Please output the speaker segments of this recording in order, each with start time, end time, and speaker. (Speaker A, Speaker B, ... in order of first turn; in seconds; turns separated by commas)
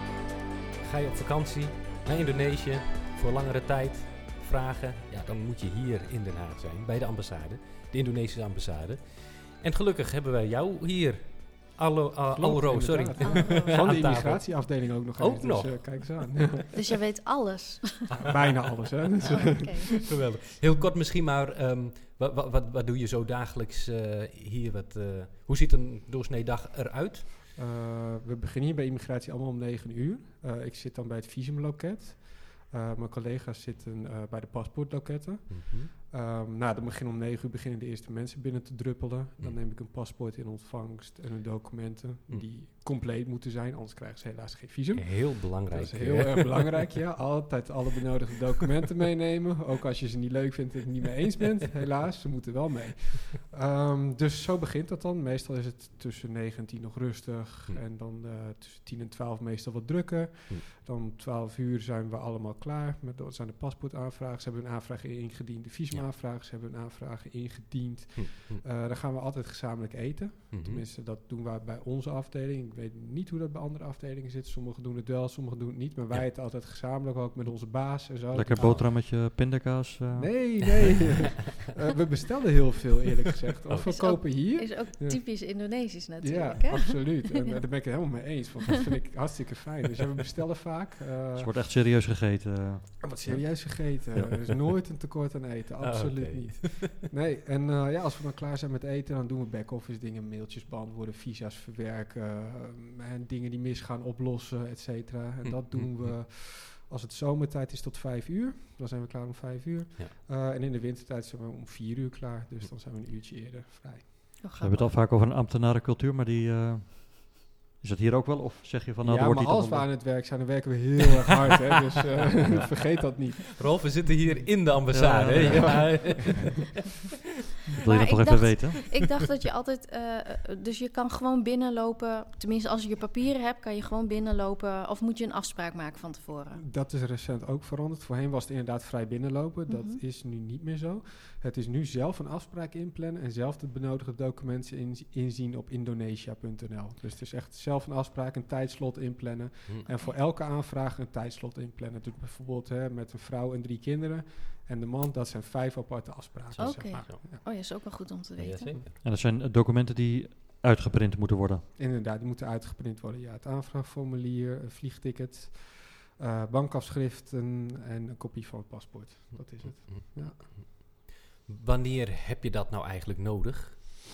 Speaker A: 0.8-16.2, Speaker B: 12.3-16.7, Speaker C: 13.2-13.8, Speaker C: 16.7-18.1, Speaker B: 18.1-20.0, Speaker C: 19.4-19.9, Speaker A: 20.0-27.3, Speaker B: 27.6-78.9, Speaker A: 35.5-35.9, Speaker A: 45.0-46.8, Speaker A: 68.2-68.6, Speaker A: 70.5-70.8, Speaker D: 78.3-81.2, Speaker A: 78.6-78.9, Speaker B: 80.2-85.2, Speaker C: 83.8-87.3, Speaker B: 86.2-91.7, Speaker D: 91.4-94.8, Speaker B: 93.0-114.1, Speaker A: 95.8-96.9, Speaker A: 105.4-106.2, Speaker C: 114.4-115.0, Speaker D: 114.6-120.0, Speaker B: 119.0-123.7, Speaker A: 122.4-122.9, Speaker D: 122.5-122.7, Speaker A: 123.6-126.7, Speaker D: 124.9-126.0, Speaker D: 127.8-128.9, Speaker C: 127.8-136.6, Speaker B: 136.5-157.4, Speaker C: 139.7-140.0, Speaker C: 149.9-150.2, Speaker A: 156.5-157.2, Speaker C: 156.6-158.8, Speaker A: 158.4-158.9, Speaker D: 159.0-161.7, Speaker B: 161.8-170.4, Speaker A: 169.3-173.8